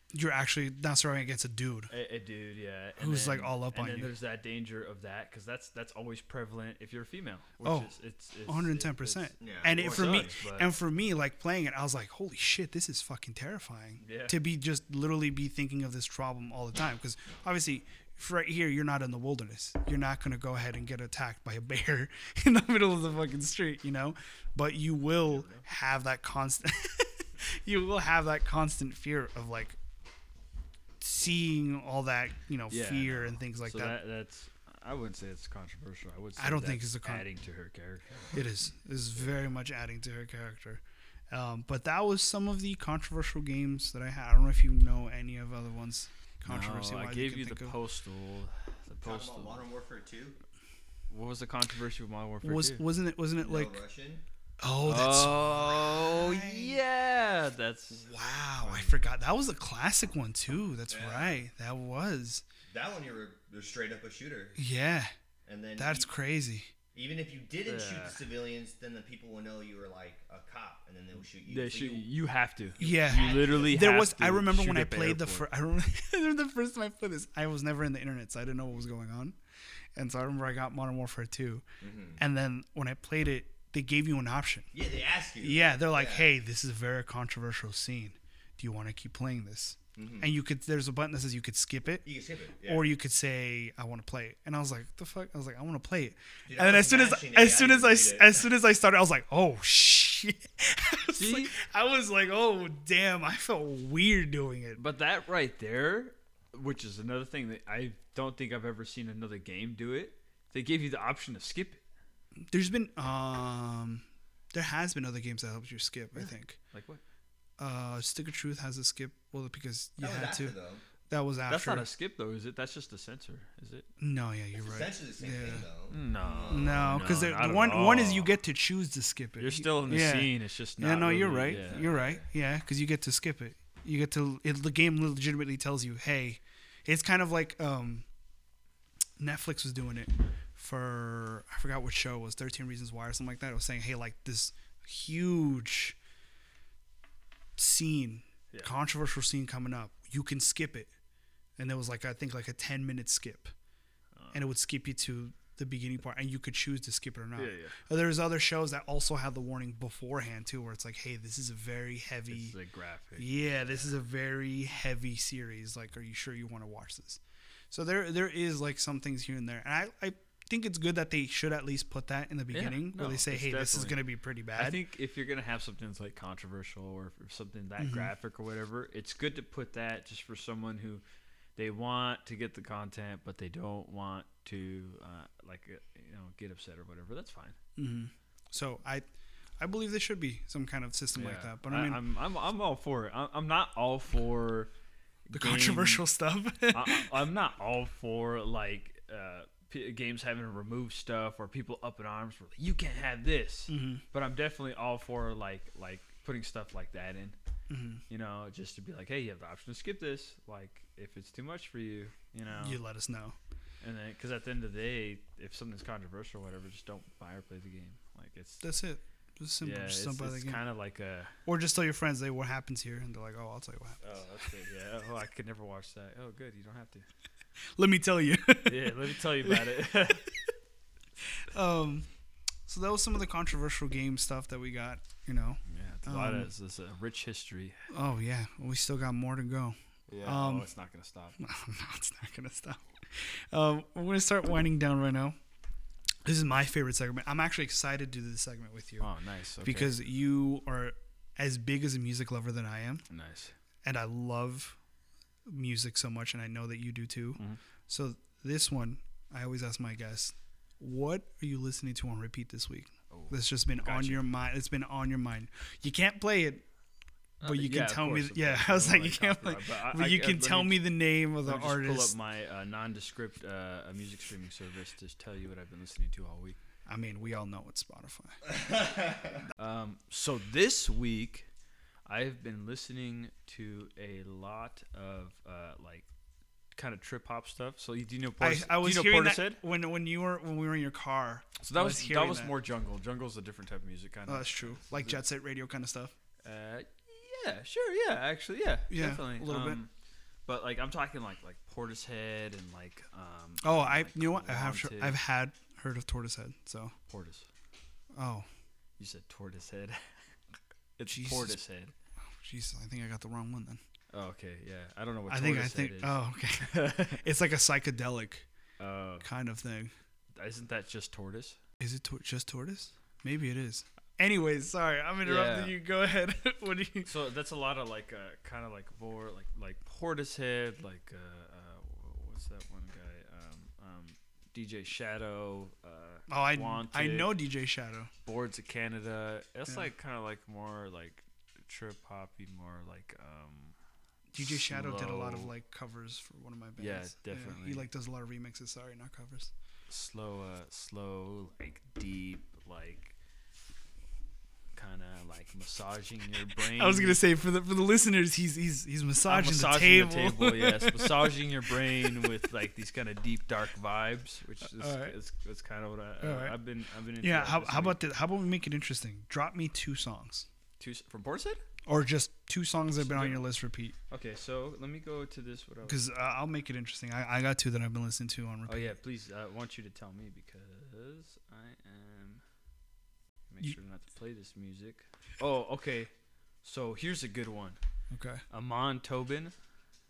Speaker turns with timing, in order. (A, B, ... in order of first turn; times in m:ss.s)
0:00.1-0:01.9 A
0:01.9-0:10.7 B
0:03.0-0:04.1 A
0:07.6-0:07.9 A
0:08.5-0:29.8 A
0:09.4-0:10.4 C
0:14.0-0:14.4 B
0:25.3-0:25.6 C
0:31.0-0:34.0 A
0:32.7-0:38.4 B
0:36.4-0:37.3 A
0:38.3-0:47.8 A
0:46.5-0:49.6 B
0:49.0-0:50.4 C
0:51.1-0:52.8 B
0:52.4-0:53.8 A
0:53.4-0:54.2 C
0:54.6-0:56.8 A
0:54.8-0:58.1 B
0:58.1-1:02.4 A
0:58.6-0:58.9 C
1:00.9-1:01.4 C
1:02.7-1:04.6 C
1:04.6-1:05.1 A
1:05.5-1:06.1 C
1:05.8-1:06.7 A
1:07.0-1:12.1 C
1:07.7-1:08.2 B
1:11.5-1:15.5 B
1:12.8-1:13.8 C
1:12.8-1:19.4 A
1:20.0-1:21.6 A
1:21.8-1:22.2 C
1:22.2-1:24.7 A
1:24.7-1:26.3 C
1:25.4-1:32.1 A
1:30.0-1:30.3 C
1:32.0-1:32.9 C
1:32.7-1:44.8 A
1:36.5-1:38.5 C
1:41.2-1:41.6 B
1:44.8-1:51.8 B
1:52.5-1:56.6 A
1:56.7-1:57.0 B
1:57.6-2:00.5 A
2:00.0-2:00.8 C
2:01.1-2:01.9 A
2:01.5-2:03.9 B
2:04.0-2:05.7 A
2:04.6-2:07.2 C
2:05.9-2:08.3 B
2:06.5-2:18.1 A
2:09.4-2:11.9 B
2:11.5-2:12.3 C
2:19.2-2:26.0 A
2:27.6-2:30.9 A
2:31.6-2:33.5 A
2:34.2-2:34.5 B
2:34.3-2:42.6 A
2:37.4-2:37.8 B
2:42.3-2:43.9 B
2:43.2-2:54.8 A
2:52.5-2:54.0 B
2:54.6-3:01.0 B
2:57.8-2:58.1 A
3:01.6-3:07.6 B
3:07.8-3:09.1 A
3:09.6-3:12.0 A
3:11.2-3:14.7 B
3:15.3-3:16.0 B
3:15.3-3:17.1 A
3:16.7-3:27.4 B
3:23.7-3:24.0 A
3:27.7-3:28.0 A
3:28.1-3:32.8 B
3:32.5-3:33.4 A
3:33.8-3:38.7 B
3:38.6-3:40.6 A
3:39.6-3:41.4 B
3:41.5-3:44.0 A
3:44.0-3:47.1 B
3:47.8-3:49.6 A
3:48.6-3:50.3 B
3:51.4-3:52.1 A
3:52.7-3:56.5 A
3:55.7-3:57.8 B
3:57.9-4:00.7 A
4:00.1-4:01.4 B
4:01.4-4:05.4 A
4:06.2-4:09.1 A
4:09.0-4:09.9 B
4:09.6-4:13.0 A
4:13.1-4:13.6 B
4:13.8-4:14.8 A
4:15.5-4:26.6 A
4:23.1-4:24.3 B
4:27.4-4:30.8 B
4:27.4-4:32.1 A
4:31.4-4:36.6 B
4:36.9-4:38.4 A
4:38.5-4:39.4 C
4:39.6-4:41.5 B
4:42.1-4:46.1 B
4:46.8-4:49.6 B
4:48.4-4:52.5 A
4:51.6-4:55.2 B
4:54.3-4:56.1 A
4:56.4-4:59.9 B
4:58.9-4:59.8 A
5:00.5-5:05.2 B
5:03.6-5:06.9 A
5:07.1-5:07.5 B
5:08.2-5:08.5 A
5:09.0-5:10.1 B
5:11.0-5:11.9 B
5:11.1-5:11.6 A
5:12.3-5:13.8 A
5:14.1-5:17.2 B
5:15.3-5:18.5 A
5:18.8-5:19.3 B
5:19.2-5:19.9 A
5:20.4-5:21.6 B
5:21.8-5:27.1 A
5:25.2-5:25.8 B
5:27.0-5:37.3 B
5:36.3-5:38.1 A
5:38.2-5:43.8 B
5:44.3-5:49.5 A
5:44.4-5:45.5 B
5:46.8-5:47.9 B
5:49.9-5:53.1 B
5:54.8-5:57.2 B
5:56.7-6:01.5 A
5:59.3-6:08.0 B
6:04.6-6:05.2 A
6:06.2-6:06.6 A
6:07.2-6:10.5 A
6:10.8-6:11.6 B
6:11.9-6:14.0 A
6:13.0-6:13.5 B
6:14.1-6:16.0 B
6:15.8-6:19.0 A
6:18.7-6:22.4 B
6:23.5-6:26.1 B
6:26.6-6:27.8 B
6:28.1-6:28.4 A
6:28.5-6:29.5 B